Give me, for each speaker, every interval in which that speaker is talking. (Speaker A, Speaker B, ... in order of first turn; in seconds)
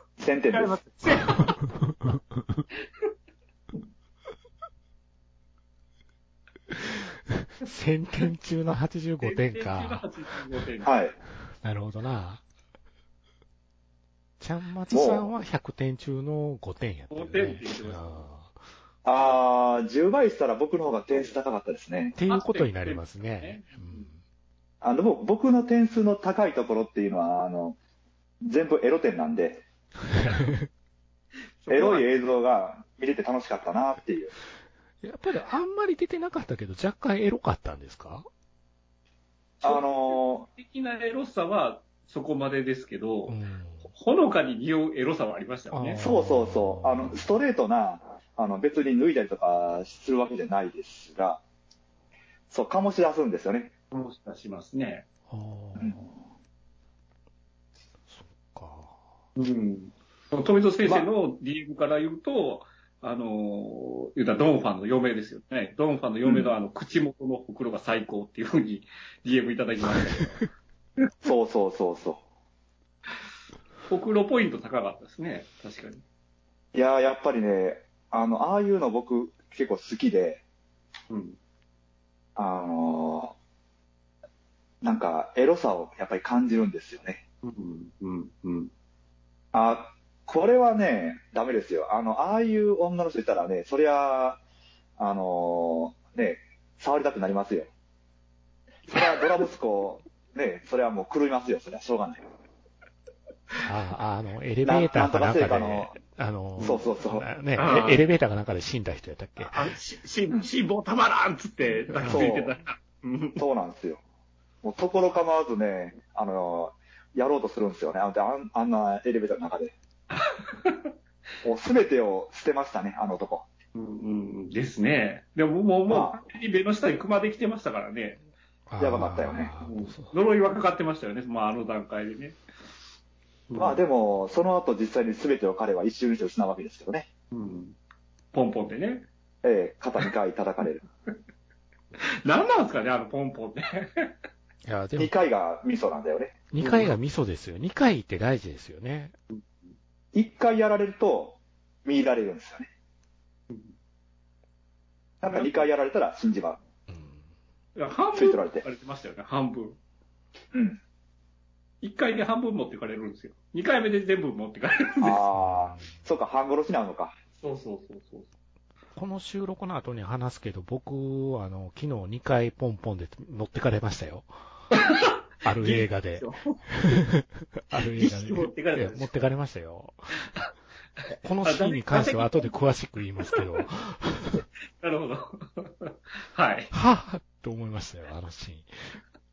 Speaker A: 0.2-0.8, 10.8-11.1, 14.9-15.3, 19.0-22.1, 24.8-27.8, 28.4-29.6, 31.7-34.3, 39.6-40.5, 46.0-51.4, 52.5-53.7, 71.2-72.2, 76.7-80.4, 82.3-83.3, 84.8-87.2, 89.5-94.4, 95.0-97.7, 98.9-102.2, 104.6-105.9, 106.6-107.2, 112.0-112.5, 113.4-114.0, 114.6-119.7, 121.4-123.5, 125.9-126.2, 128.8-129.5, 133.6-137.1, 139.4-140.8, 144.9-146.4, 150.1-152.7, 155.2-156.6, 158.1-158.6, 160.5-160.8, 165.0-167.2
Speaker B: 0.5-1.6, 9.2-10.9, 17.1-18.2, 21.1-21.4, 22.3-24.1, 31.6-32.1, 39.6-43.4, 43.9-46.0, 53.9-55.1, 59.4-70.4, 73.9-76.0, 81.1-81.4, 87.4-88.7, 106.6-106.8, 107.5-108.0, 109.4-113.4, 120.1-120.9, 123.7-128.2, 129.6-132.4, 133.5-133.8, 137.3-137.8, 138.3-139.1, 142.0-144.1, 146.6-146.9, 149.3-149.7, 155.3-155.7, 157.8-159.8, 161.8-165.2, 167.4-168.3, 174.7-177.0, 177.7-179.1, 181.4-182.5, 183.3-183.6, 184.8-186.7
Speaker C: 1.9-2.6, 6.7-10.1, 11.6-12.4, 14.4-18.5, 22.1-24.2, 30.1-30.7, 35.0-38.3, 43.3-43.9, 45.7-47.3, 55.3-56.0, 58.1-59.0, 103.6-109.7, 111.9-112.3, 128.7-130.1, 144.6-145.1, 146.5-149.1, 156.9-157.2, 165.3-165.9, 168.9-174.3, 175.4-180.2, 181.2-184.4, 186.7-189.0